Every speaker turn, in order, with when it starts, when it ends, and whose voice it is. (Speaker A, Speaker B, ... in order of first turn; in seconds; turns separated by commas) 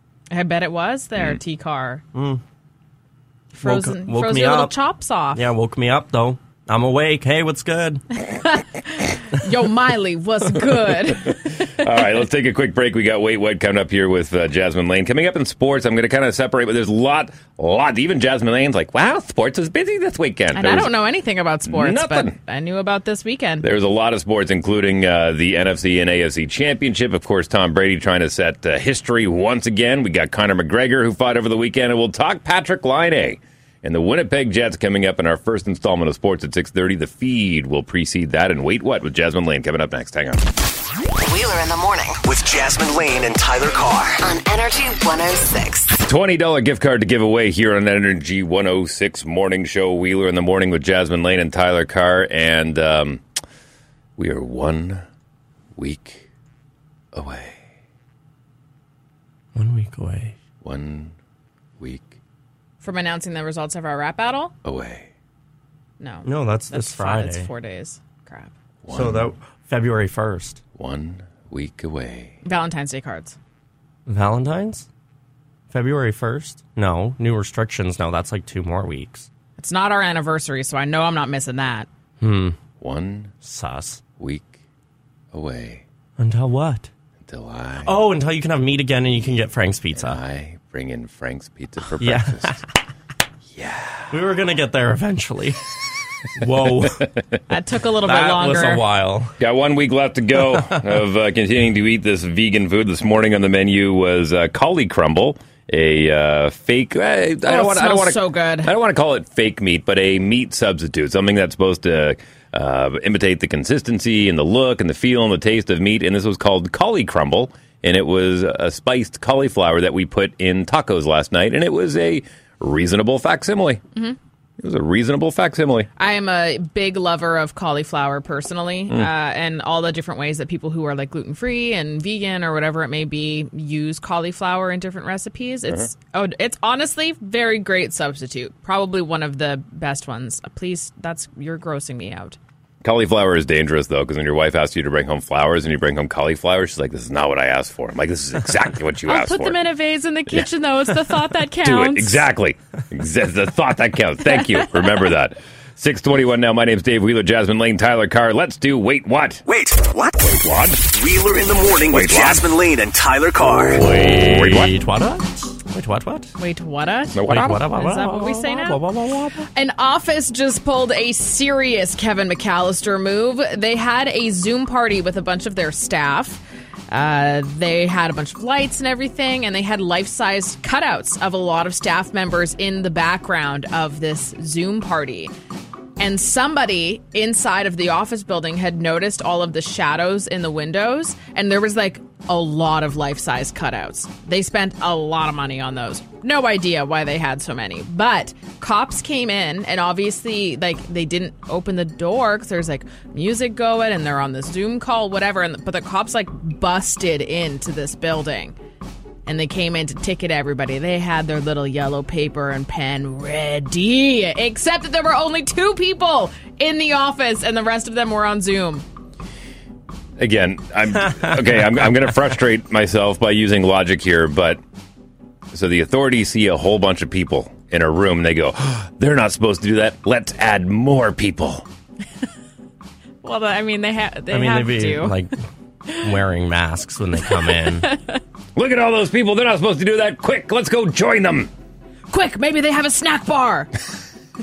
Speaker A: 0.3-2.0, Speaker B: 2.1-2.4, Speaker A: 3.5-5.4, Speaker B: 3.6-4.7, Speaker B: 5.3-8.0, Speaker A: 8.2-11.7, Speaker C: 11.7-20.9, Speaker A: 20.5-23.7, Speaker C: 21.7-22.4, Speaker C: 23.6-40.5, Speaker D: 41.2-42.2, Speaker E: 42.2-44.2, Speaker D: 44.2-46.0, Speaker C: 46.0-53.2, Speaker C: 54.2-55.0, Speaker C: 55.8-56.2, Speaker C: 57.1-57.6, Speaker B: 59.5-60.4, Speaker C: 60.6-61.1, Speaker C: 61.8-62.1, Speaker A: 62.8-64.5, Speaker C: 64.7-65.1, Speaker A: 66.0-68.5, Speaker B: 66.2-67.5, Speaker C: 68.8-69.3, Speaker B: 68.9-70.6, Speaker C: 70.8-72.3, Speaker A: 72.5-73.4, Speaker B: 74.1-74.9, Speaker B: 75.7-79.3, Speaker A: 79.6-81.9, Speaker B: 82.2-82.6, Speaker C: 82.8-83.3, Speaker B: 83.4-84.0, Speaker C: 84.2-84.5, Speaker C: 85.3-85.8, Speaker B: 86.2-86.9, Speaker C: 87.2-87.9, Speaker B: 87.8-90.2, Speaker C: 90.0-92.6, Speaker B: 92.0-92.6, Speaker C: 93.5-94.1, Speaker B: 94.1-95.6, Speaker B: 96.4-97.1, Speaker A: 97.5-98.8, Speaker B: 98.0-99.3, Speaker C: 99.4-123.8, Speaker A: 107.5-108.7, Speaker C: 124.6-125.9, Speaker A: 126.0-142.4, Speaker C: 142.8-149.6, Speaker A: 149.1-152.3, Speaker C: 151.6-159.4, Speaker E: 159.5-163.8, Speaker C: 160.2-160.8, Speaker C: 161.9-162.5, Speaker B: 163.8-166.3, Speaker C: 163.8-164.7, Speaker A: 166.4-168.8, Speaker C: 167.2-167.6, Speaker B: 167.2-169.4, Speaker A: 169.5-176.4, Speaker A: 176.9-185.3, Speaker A: 186.0-208.6, Speaker A: 209.3-218.8, Speaker C: 220.2-224.6, Speaker C: 225.5-231.7, Speaker A: 233.2-235.2, Speaker B: 234.3-235.3, Speaker B: 236.0-237.9, Speaker A: 237.4-238.2, Speaker C: 238.6-241.5, Speaker A: 242.1-243.7